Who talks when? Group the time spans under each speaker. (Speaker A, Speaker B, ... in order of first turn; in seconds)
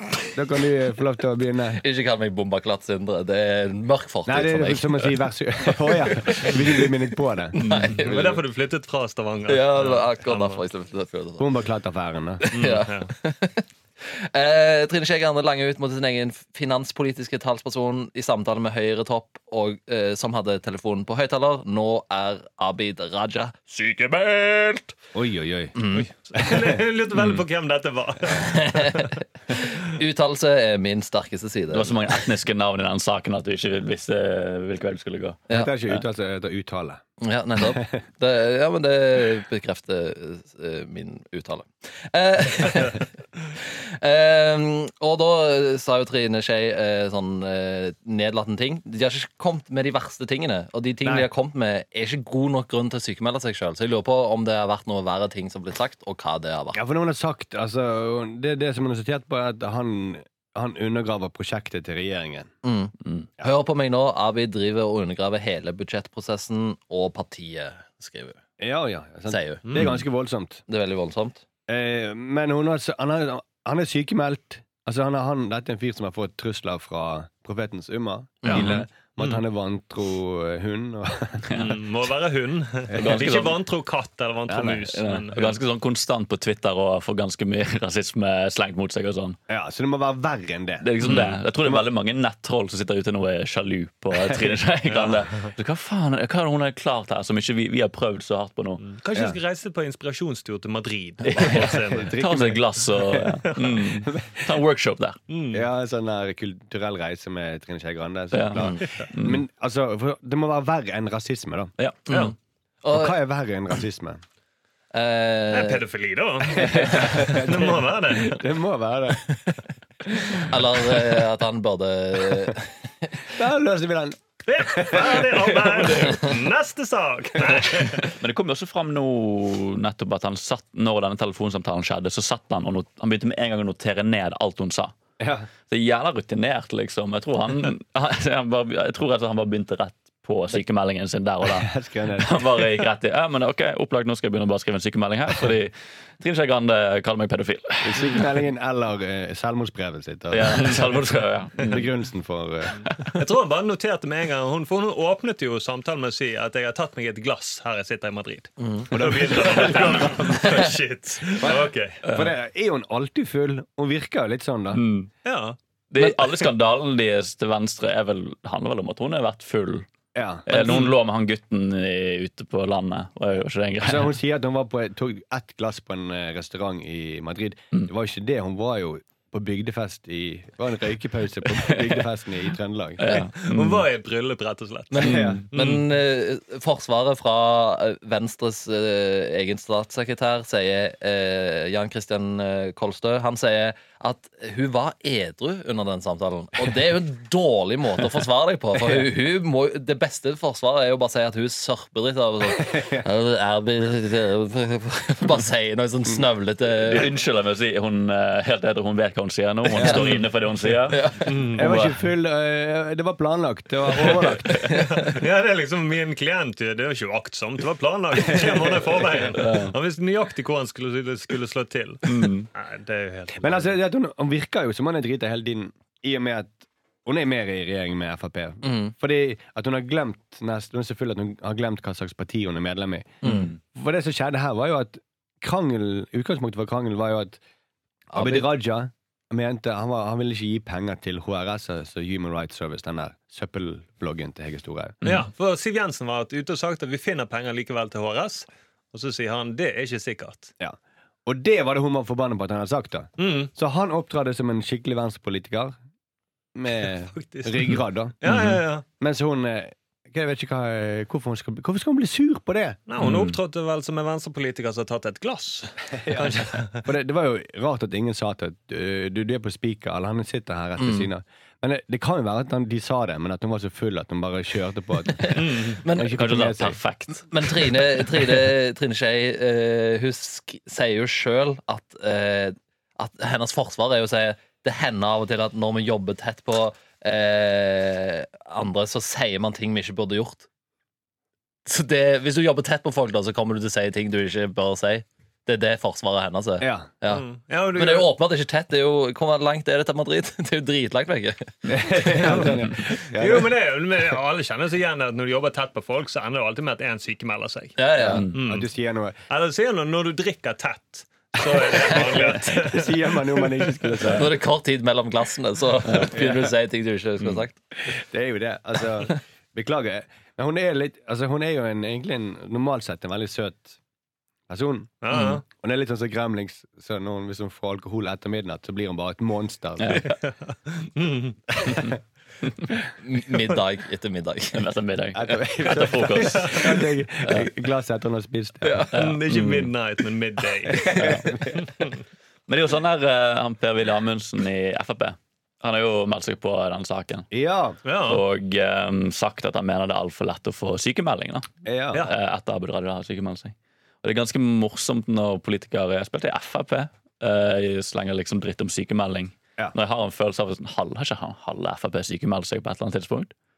Speaker A: 0.3-1.8, 4.2-7.6, 11.4-12.4, 25.1-25.8, 26.4-26.7, 35.5-37.0, 51.0-51.3, 56.7-62.5, 68.6-70.6, 71.7-81.5, 83.0-83.4, 84.5-84.8, 89.5-91.8, 94.2-94.6, 101.3-103.4, 104.0-104.4, 105.5-111.7, 112.9-114.2, 116.5-119.3, 123.3-126.1, 135.2-135.5, 141.6-142.5, 147.8-151.0, 151.7-153.1, 158.9-160.2, 161.4-164.8, 170.1-170.9, 173.8-183.0, 185.0-185.4, 202.6-203.0, 209.7-210.2, 211.6-214.7, 218.3-218.9, 223.4-237.4, 238.1-245.0, 250.6-255.8, 256.5-258.2, 259.0-262.8, 266.0-276.8, 296.6-296.9, 301.7-303.5, 308.1-309.2, 311.4-314.4, 316.1-316.5, 317.9-323.8, 324.5-330.0, 331.6-332.0, 335.1-338.9, 340.9-341.7, 347.3-347.8, 351.6-352.1
Speaker B: 1.8-5.1, 5.9-6.8, 7.5-8.4, 9.5-11.5, 12.4-24.9, 25.8-26.0, 28.4-32.2, 37.2-56.8, 62.6-68.4, 69.3-69.7, 70.7-71.4, 78.4-78.7, 112.1-113.1, 114.9-115.8, 120.5-123.2, 158.6-158.9, 184.9-207.1, 210.9-211.3, 228.6-228.9, 233.2-233.5, 238.1-238.5, 270.8-271.1, 275.2-276.1, 277.3-290.4, 291.6-302.3, 307.8-308.2, 314.1-317.6, 333.0-334.6, 338.6-338.9
Speaker C: 7.6-8.0, 27.1-27.4, 31.7-35.5, 78.5-78.8, 81.5-81.8, 83.0-83.6, 84.9-89.4, 90.8-98.8, 101.3-101.6, 102.2-105.2, 108.3-109.4, 111.8-112.3, 128.2-135.0, 135.6-148.3, 150.3-151.9, 162.0-162.3, 164.7-165.1, 165.9-169.8, 170.4-174.1, 181.5-182.0, 183.0-183.9, 185.0-185.4, 206.8-212.0, 214.0-214.7, 219.3-219.7, 222.0-222.5, 233.2-233.5, 258.3-258.6, 263.0-263.4, 276.1-278.1, 308.1-308.4, 325.1-325.4, 329.8-330.1, 331.6-331.9, 332.4-332.7, 334.5-337.5, 338.9-339.7, 340.9-341.3, 342.5-347.3, 348.1-363.3
Speaker D: 8.0-10.6, 12.5-13.1, 25.9-29.2, 69.7-70.0, 78.5-79.4, 81.5-85.6, 91.0-91.3, 94.9-95.5, 98.8-102.1, 105.3-105.7, 115.5-118.4, 124.5-128.1, 153.2-162.0, 165.2-165.6, 183.1-185.8, 209.8-210.2, 211.3-211.7, 214.0-223.7, 245.0-250.5, 253.2-253.5, 257.1-258.8, 262.9-266.8, 275.4-275.8, 297.1-298.1, 303.1-307.8, 308.3-308.7, 309.3-313.8, 325.0-325.4, 330.0-331.4, 338.9-341.2, 347.8-348.2